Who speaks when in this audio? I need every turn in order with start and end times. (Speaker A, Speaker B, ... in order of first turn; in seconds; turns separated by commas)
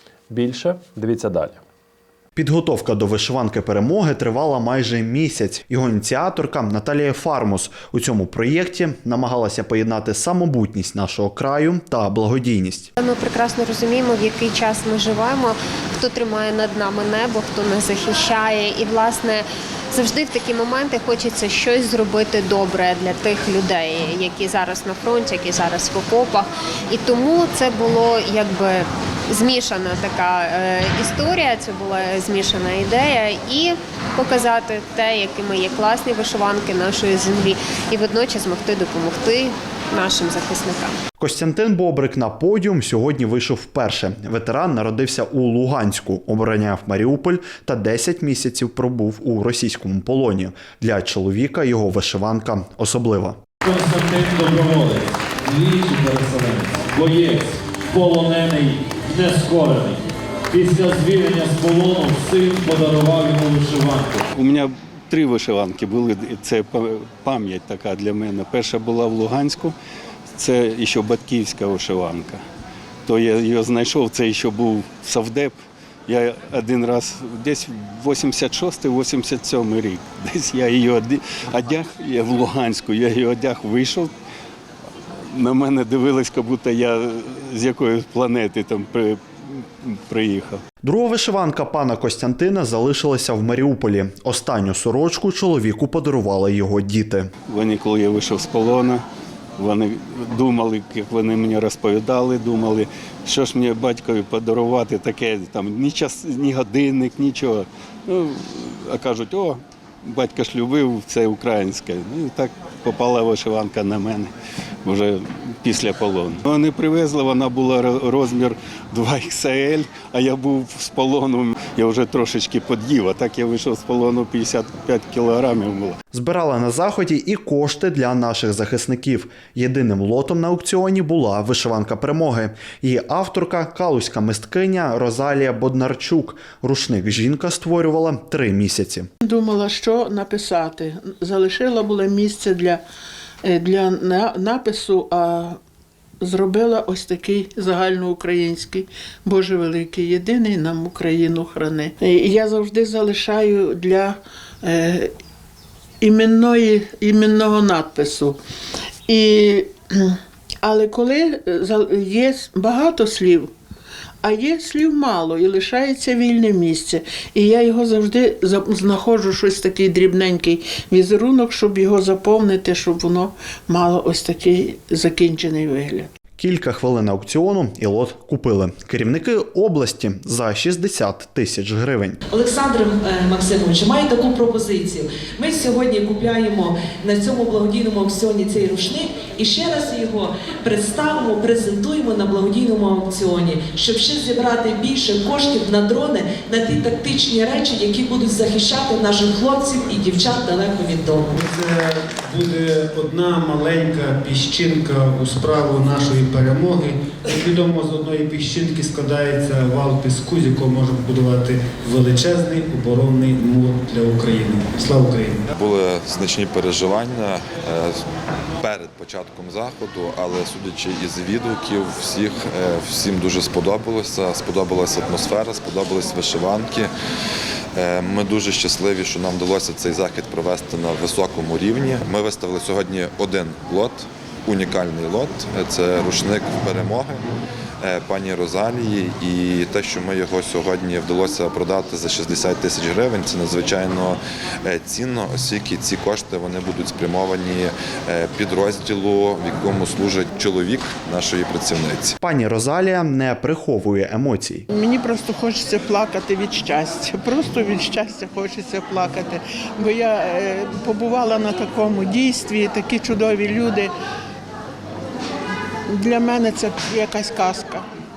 Speaker A: 0.3-1.6, Speaker B: 2.4-12.9, Speaker C: 13.0-41.0, Speaker B: 41.2-53.4, Speaker A: 53.6-60.0, Speaker A: 60.5-64.2, Speaker D: 64.3-69.7, Speaker D: 70.3-72.4, Speaker D: 73.0-84.1, Speaker D: 85.1-90.6, Speaker B: 90.8-97.3, Speaker D: 97.5-99.0, Speaker D: 99.6-114.3, Speaker D: 114.8-126.0, Speaker B: 126.1-139.1, Speaker E: 139.2-142.8, Speaker E: 143.4-145.6, Speaker E: 146.2-155.1, Speaker E: 156.0-158.4, Speaker E: 159.1-163.5, Speaker E: 164.2-176.1, Speaker B: 176.4-182.2, Speaker F: 182.3-201.4, Speaker G: 201.4-215.4, Speaker H: 215.5-218.0, Speaker H: 218.6-226.9, Speaker H: 227.7-237.2, Speaker H: 237.8-252.1, Speaker B: 252.2-254.7, Speaker E: 254.7-263.9, Speaker E: 265.9-267.8